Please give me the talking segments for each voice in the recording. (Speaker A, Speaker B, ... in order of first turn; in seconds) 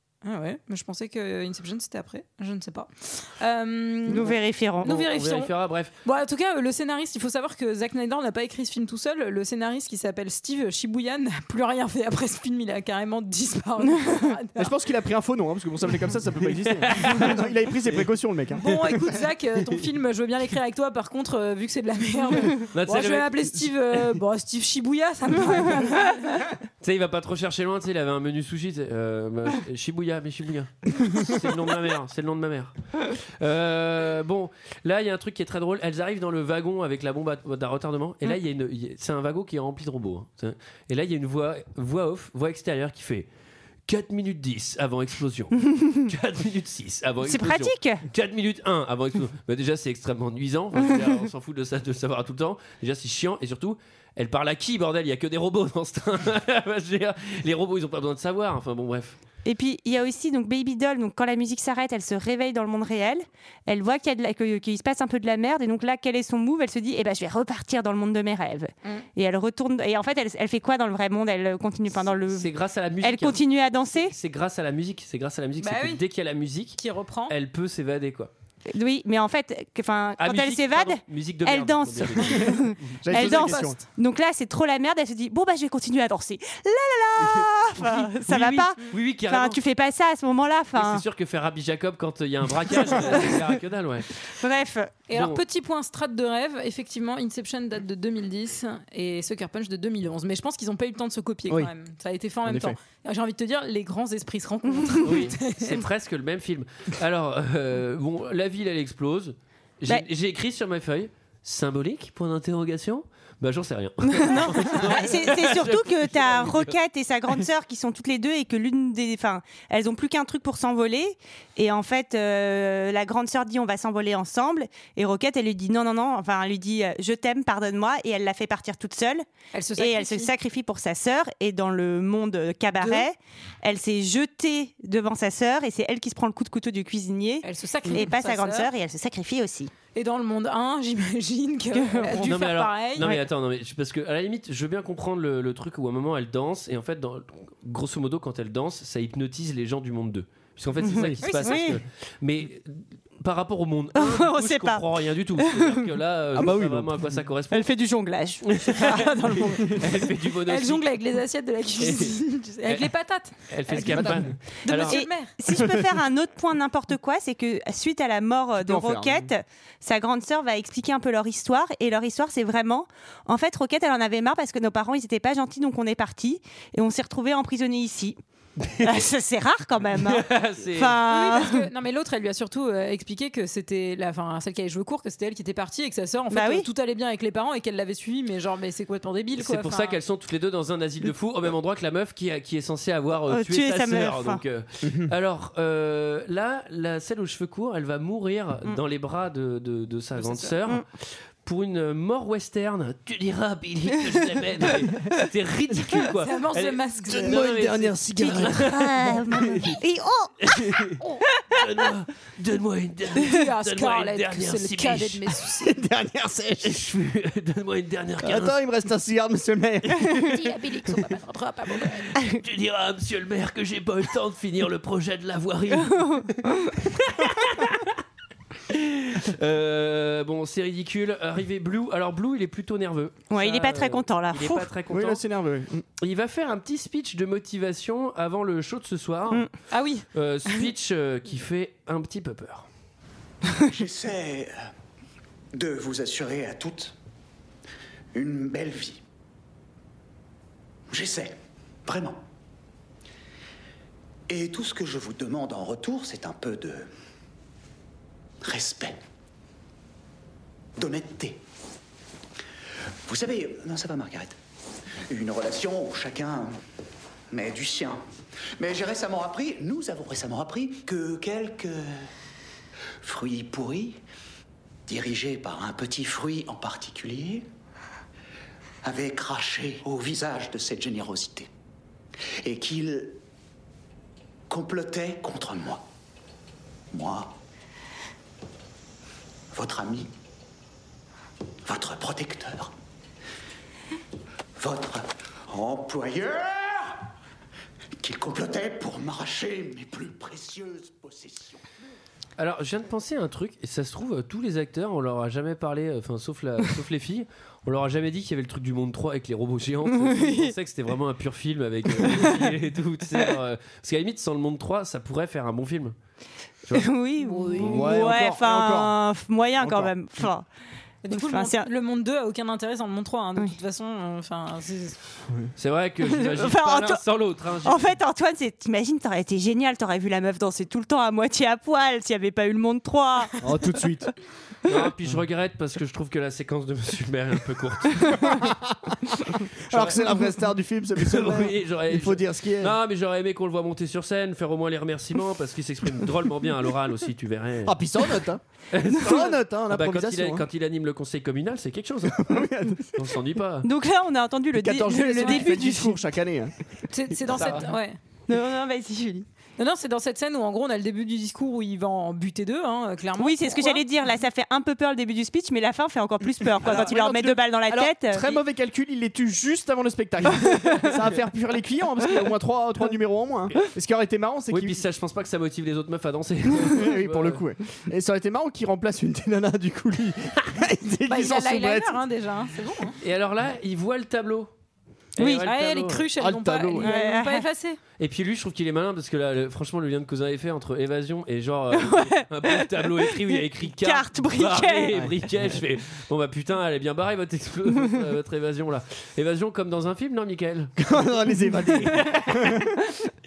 Speaker A: 0.2-5.5, 6.0-14.7, 18.6-26.5, 75.6-76.0, 76.8-77.3, 83.2-83.8, 95.1-105.8, 129.5-130.3, 132.8-133.1, 137.4-138.7, 139.9-143.1, 151.2-151.7, 160.4-165.3, 181.1-190.0, 200.2-200.6, 206.1-207.6, 213.2-215.7, 220.1-222.1, 239.7-240.1, 317.2-317.9, 321.1-325.0, 355.2-355.4, 356.9-358.0, 359.6-363.8, 381.1-383.0, 385.4-387.8
Speaker B: 4.1-5.0, 47.2-48.0, 59.4-74.1, 78.7-91.0, 92.9-93.4, 94.3-94.9, 114.1-129.2, 129.8-139.7, 141.7-142.4, 150.9-151.8, 153.9-154.8, 155.4-155.7, 157.5-159.8, 164.8-178.2, 178.8-181.7, 186.3-186.7, 193.3-194.4, 208.3-210.8, 233.3-234.7, 309.9-310.5, 312.0-312.5, 316.7-320.5, 321.1-321.7, 326.1-327.0, 327.6-333.5, 353.6-356.0, 358.3-359.3, 363.2-368.3, 385.2-385.5, 386.8-387.4, 391.7-393.1, 393.6-395.0
Speaker C: 4.8-5.9, 16.6-17.4, 22.7-23.4, 26.8-43.3, 43.9-59.2, 72.3-73.4, 74.0-78.3, 80.2-83.0, 87.2-89.6, 90.7-94.1, 95.1-95.4, 105.0-116.8, 142.1-157.7, 158.4-160.9, 161.8-162.9, 163.5-165.0, 178.6-179.0, 180.0-181.0, 189.4-209.7, 210.4-215.2, 216.6-218.6, 222.2-228.0, 228.7-235.2, 236.0-239.5, 240.1-242.7, 302.4-315.9, 325.6-327.9, 334.6-338.2, 339.7-340.2, 341.0-347.8, 348.7-352.3, 352.9-353.7, 357.3-357.6, 374.5-377.4, 383.0-384.5, 385.1-386.1, 388.0-402.6
Speaker D: 14.6-19.2, 83.0-83.8, 102.4-102.8, 156.3-157.2, 164.0-164.2, 165.5-165.9, 168.6-169.3, 194.8-195.1, 207.1-209.7, 215.6-216.8, 218.2-220.5, 234.9-235.8, 317.6-318.9, 319.6-320.3, 333.4-334.1, 338.2-342.8, 347.6-350.4, 352.1-353.0, 354.5-356.6, 366.6-374.8, 376.6-382.0, 386.2-386.9, 400.8-402.7
Speaker E: 243.7-244.6, 245.5-246.9, 248.1-249.0, 250.9-252.2, 254.3-256.9, 258.4-259.0, 260.8-261.4, 263.1-264.4, 265.1-266.5, 267.3-268.0, 268.6-272.1, 273.0-274.0, 274.9-277.4, 278.8-281.5, 282.4-283.2, 284.5-285.8, 286.9-287.3, 289.5-290.1, 291.6-292.7, 294.6-297.0, 298.0-301.6